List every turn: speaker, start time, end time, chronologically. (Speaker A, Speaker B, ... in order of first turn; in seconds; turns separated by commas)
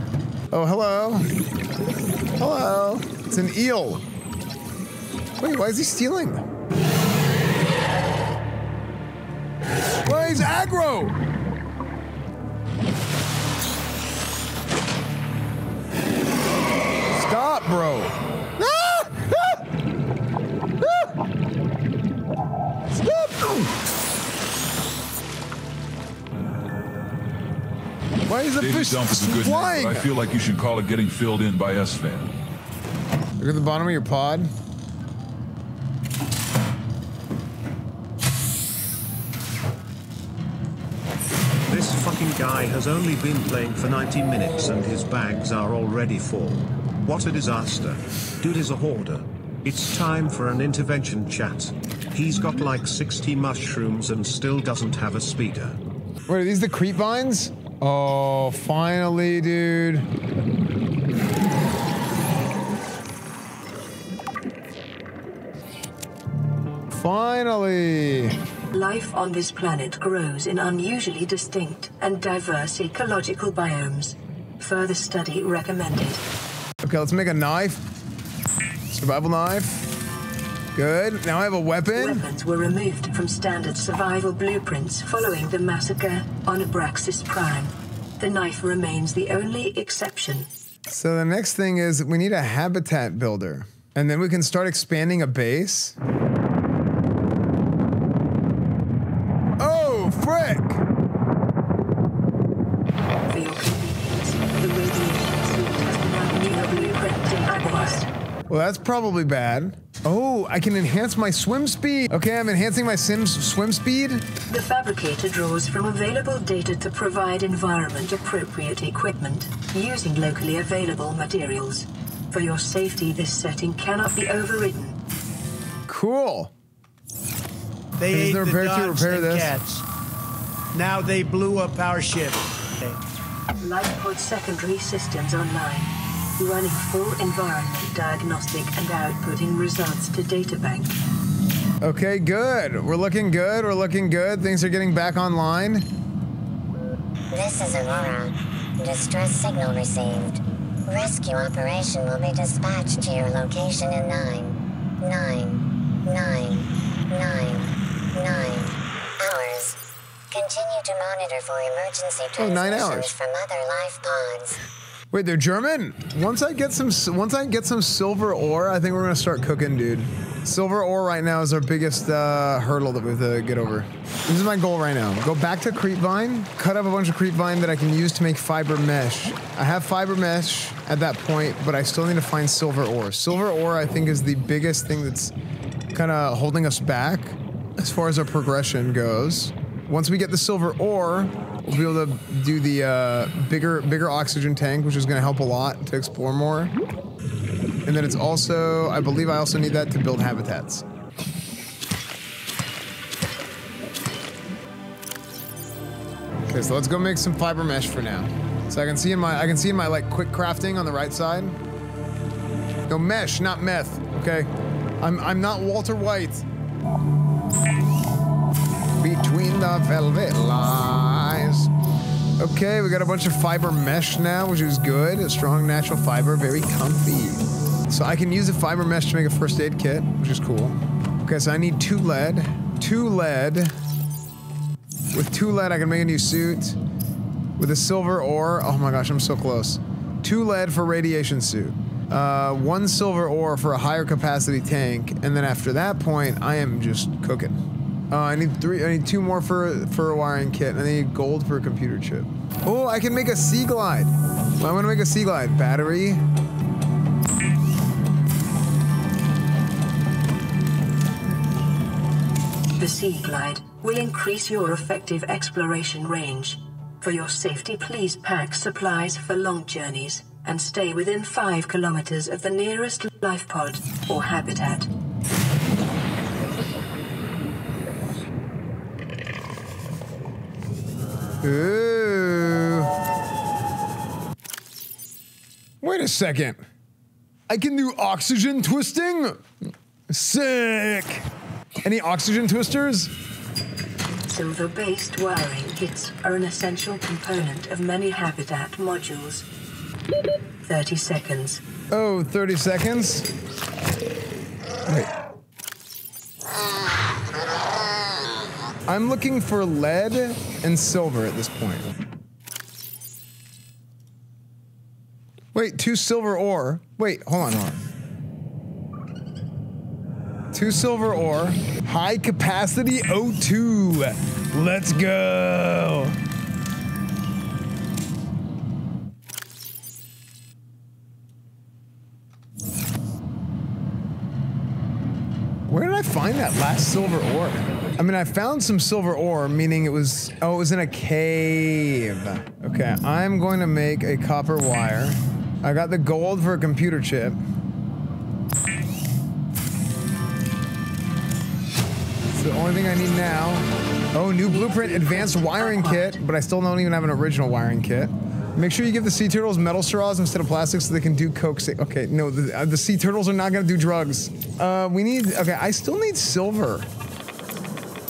Speaker A: 0.5-1.3, Speaker A: 2.4-4.0, Speaker A: 5.4-6.4, Speaker A: 10.0-11.1, Speaker A: 17.1-19.6, Speaker A: 20.8-21.1, Speaker A: 22.9-23.7, Speaker A: 28.3-30.1, Speaker B: 28.6-32.3, Speaker A: 33.4-34.5, Speaker C: 41.7-55.8, Speaker A: 56.3-60.1, Speaker A: 66.9-68.3, Speaker D: 68.7-76.2, Speaker A: 76.8-77.8, Speaker A: 78.9-79.8, Speaker A: 80.7-82.2, Speaker D: 81.9-90.5, Speaker A: 90.9-96.0, Speaker A: 99.6-100.8, Speaker D: 103.3-108.1, Speaker A: 108.5-114.2, Speaker D: 114.5-125.0, Speaker A: 125.9-126.5, Speaker E: 128.0-129.8, Speaker A: 128.1-129.5, Speaker E: 130.7-133.0, Speaker D: 133.6-140.9, Speaker A: 141.8-145.9, Speaker F: 147.3-159.8, Speaker F: 160.3-164.6, Speaker A: 162.4-163.1, Speaker A: 165.1-185.3, Speaker A: 185.9-196.7, Speaker A: 197.8-200.8, Speaker A: 206.5-211.6, Speaker A: 212.9-214.5, Speaker A: 215.0-216.4, Speaker A: 219.0-221.7, Speaker A: 222.4-233.7, Speaker A: 235.1-236.8, Speaker A: 237.6-247.6, Speaker A: 248.1-256.2, Speaker D: 262.8-274.9, Speaker A: 281.4-282.9, Speaker A: 285.8-286.6, Speaker A: 287.5-289.4, Speaker A: 290.1-291.2, Speaker A: 291.8-293.1, Speaker D: 294.3-299.4, Speaker D: 300.6-301.6, Speaker A: 301.9-303.3, Speaker A: 304.9-305.1, Speaker A: 308.9-311.9, Speaker A: 315.5-317.8, Speaker A: 320.5-326.2, Speaker A: 335.7-347.4, Speaker A: 352.3-366.9, Speaker D: 354.4-356.2